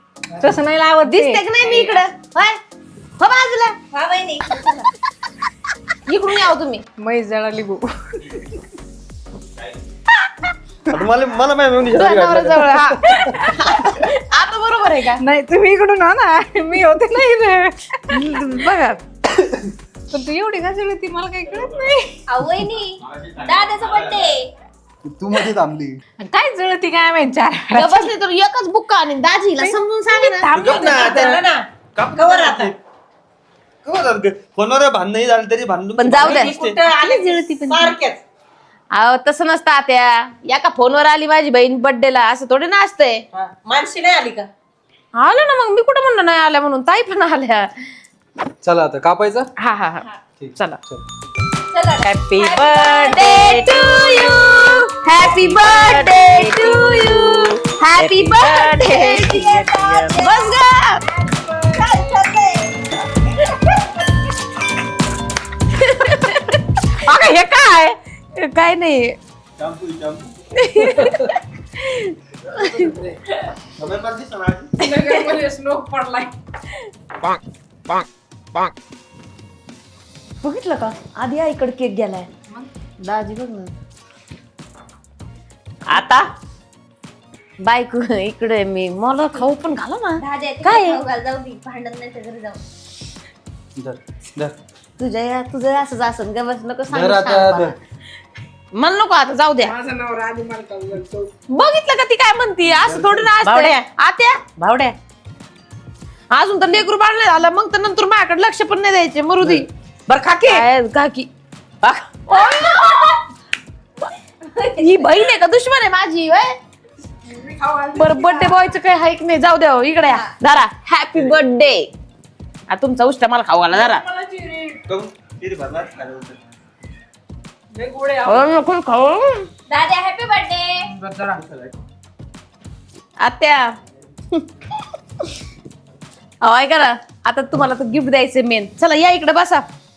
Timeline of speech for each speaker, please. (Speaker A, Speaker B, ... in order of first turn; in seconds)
Speaker A: 0.4-2.0, 7.0-8.5, 13.1-13.6, 15.2-18.4, 20.1-22.7, 26.2-28.1, 29.6-31.2, 61.1-62.2, 74.8-76.3, 99.6-101.3, 117.2-118.7, 123.7-124.8, 127.8-128.5, 131.0-131.4
Speaker B: 1.0-2.6, 3.2-3.8, 6.1-6.8, 11.9-15.2, 18.1-19.0, 27.7-30.5, 36.0-37.9, 38.9-43.2, 45.2-47.9, 49.6-50.8, 53.1-59.4, 60.1-61.0, 65.7-66.6, 68.3-69.2, 70.6-73.0, 74.9-75.3, 80.4-82.3, 83.0-83.7, 87.6-91.0, 95.0-97.7, 98.7-99.7, 101.5-104.4, 106.3-109.7, 110.4-111.3, 112.3-113.2, 114.6-116.5, 117.9-121.9, 122.7-124.0, 128.2-129.5, 133.2-133.7, 136.4-139.7
Speaker C: 3.9-4.5, 22.3-24.5, 51.7-53.2, 58.8-60.4, 61.8-62.8, 90.2-92.6, 129.7-130.9
Speaker D: 10.9-12.8, 23.1-23.5, 30.5-31.4, 31.9-32.7, 33.8-36.8, 69.6-70.3, 73.8-74.7, 124.9-126.4, 131.3-131.7
Speaker E: 25.0-26.0, 48.6-49.5, 50.4-51.0, 70.9-71.2, 93.8-94.6, 96.9-97.7, 102.8-103.3
Speaker F: 30.5-32.7, 36.1-38.2, 43.3-44.5, 52.0-60.3, 67.0-68.0, 85.9-86.2, 103.4-103.9, 104.6-105.0, 110.1-110.6, 111.8-112.4